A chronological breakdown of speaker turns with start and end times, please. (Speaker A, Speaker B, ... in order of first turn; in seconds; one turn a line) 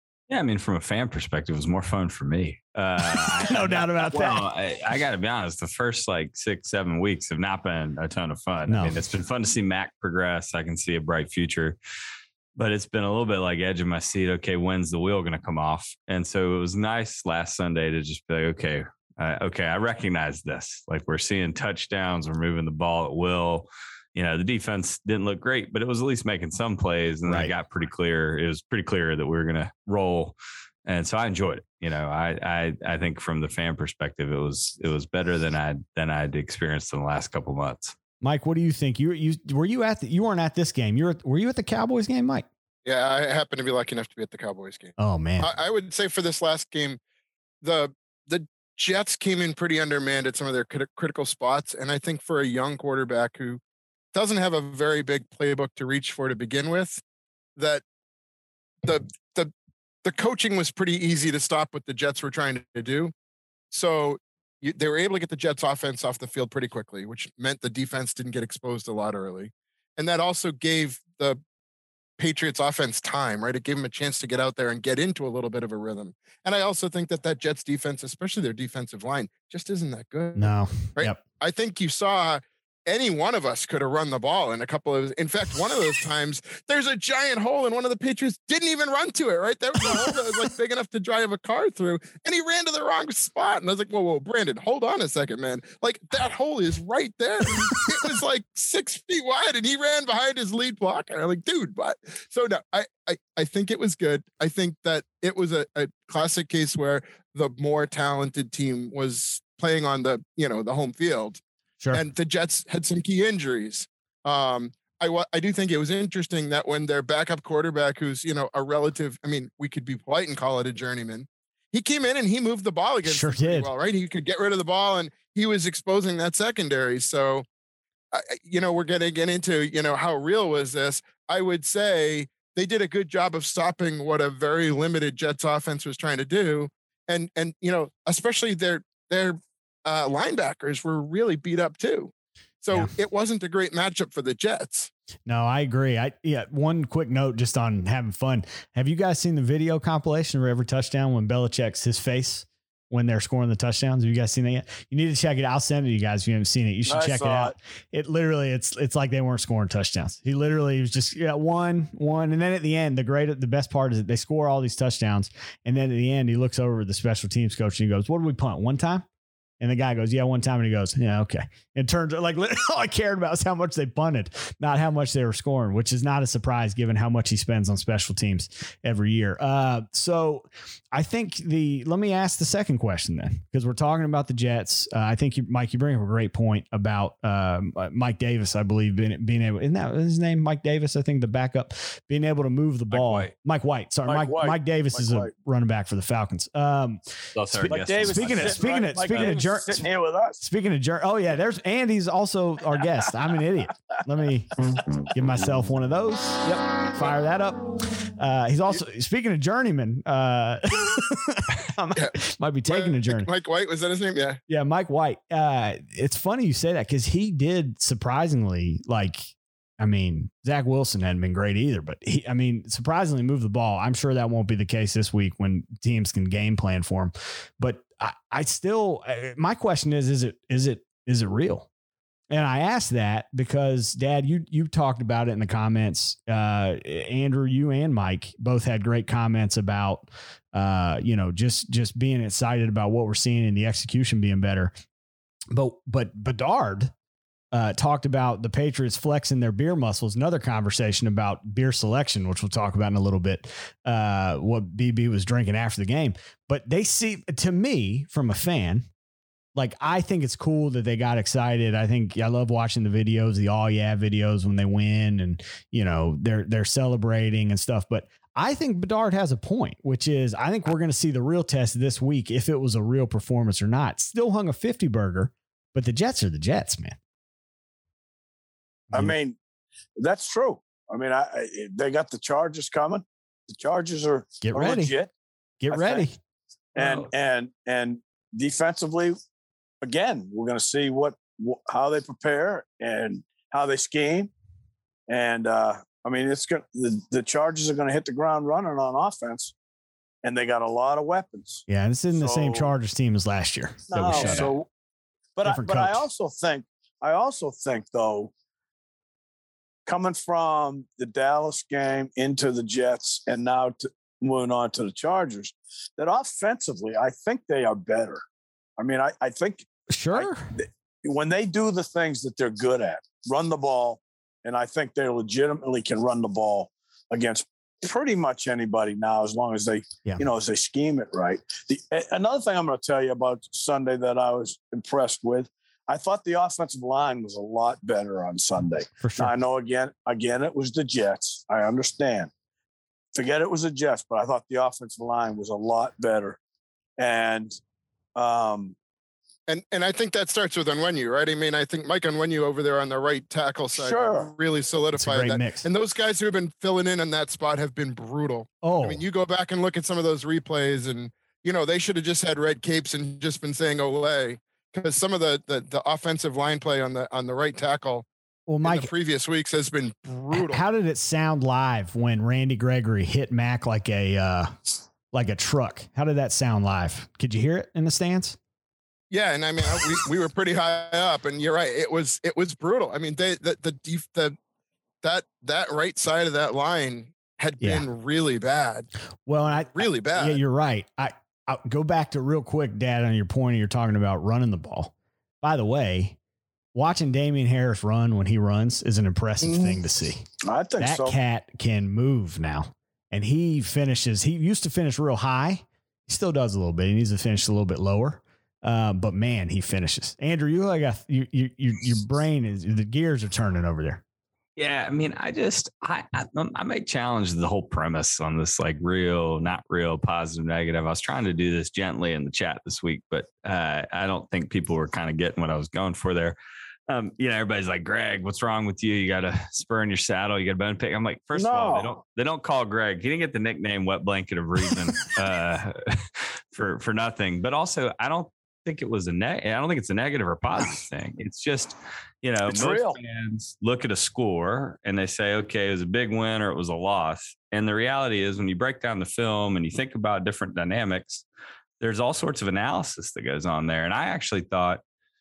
Speaker A: 0.3-11.8
Speaker B: 3.0-4.5
Speaker B: 8.7-9.0
Speaker A: 12.6-30.4
Speaker B: 27.3-27.5
Speaker A: 30.9-38.0
Speaker B: 38.2-42.5
Speaker C: 42.9-47.0
Speaker B: 45.0-45.5
Speaker C: 47.6-53.6
Speaker C: 54.1-57.0
Speaker C: 57.6-57.8
Speaker C: 58.8-59.5
Speaker C: 60.0-63.1
Speaker C: 63.7-71.4
Speaker C: 72.2-127.5
Speaker B: 80.4-81.2
Speaker B: 123.0-123.7
Speaker C: 128.1-144.9
Speaker B: 145.3-169.1
Speaker D: 156.9-157.5
Speaker B: 169.6-199.8
Speaker A: 192.9-193.3
Speaker D: 194.1-195.3
Speaker A: 197.3-199.4
Speaker D: 197.7-200.4
Speaker B: 200.4-213.3
Speaker C: 212.7-214.4
Speaker B: 214.5-231.7
Speaker B: 232.3-244.7
Speaker B: 245.5-246.9
Speaker B: 247.5-258.9
Speaker B: 259.6-277.0
Speaker D: 278.9-279.4
Speaker D: 280.0-285.1
Speaker B: 284.4-284.9
Speaker B: 285.6-286.2
Speaker D: 285.7-286.1
Speaker A: 286.8-287.1
Speaker D: 286.8-289.2
Speaker D: 289.8-294.3
Speaker D: 295.1-299.5
Speaker D: 300.2-302.7
Speaker B: 301.7-304.5
Speaker D: 303.9-304.7
Speaker D: 305.4-308.3
Speaker B: 305.4-306.0
Speaker D: 309.9-318.2
Speaker D: 318.8-342.3
Speaker B: 319.9-320.5
Speaker B: 339.0-339.3
Speaker D: 343.1-346.4
Speaker D: 347.0-347.6
Speaker D: 348.2-348.8
Speaker C: 349.5-368.1
Speaker D: 353.8-354.3
Speaker B: 355.0-355.7
Speaker B: 358.6-359.0
Speaker B: 368.5-368.9
Speaker C: 368.6-370.6
Speaker B: 370.3-378.4
Speaker C: 379.1-384.4
Speaker C: 385.0-388.9
Speaker B: 387.6-387.9
Speaker B: 389.3-396.2
Speaker C: 389.7-390.4
Speaker B: 396.7-400.3
Speaker D: 399.4-399.8
Speaker D: 400.4-401.2
Speaker B: 400.8-414.0
Speaker A: 414.6-426.4
Speaker A: 426.9-451.2
Speaker D: 431.3-431.9
Speaker D: 442.5-443.0
Speaker A: 451.8-454.8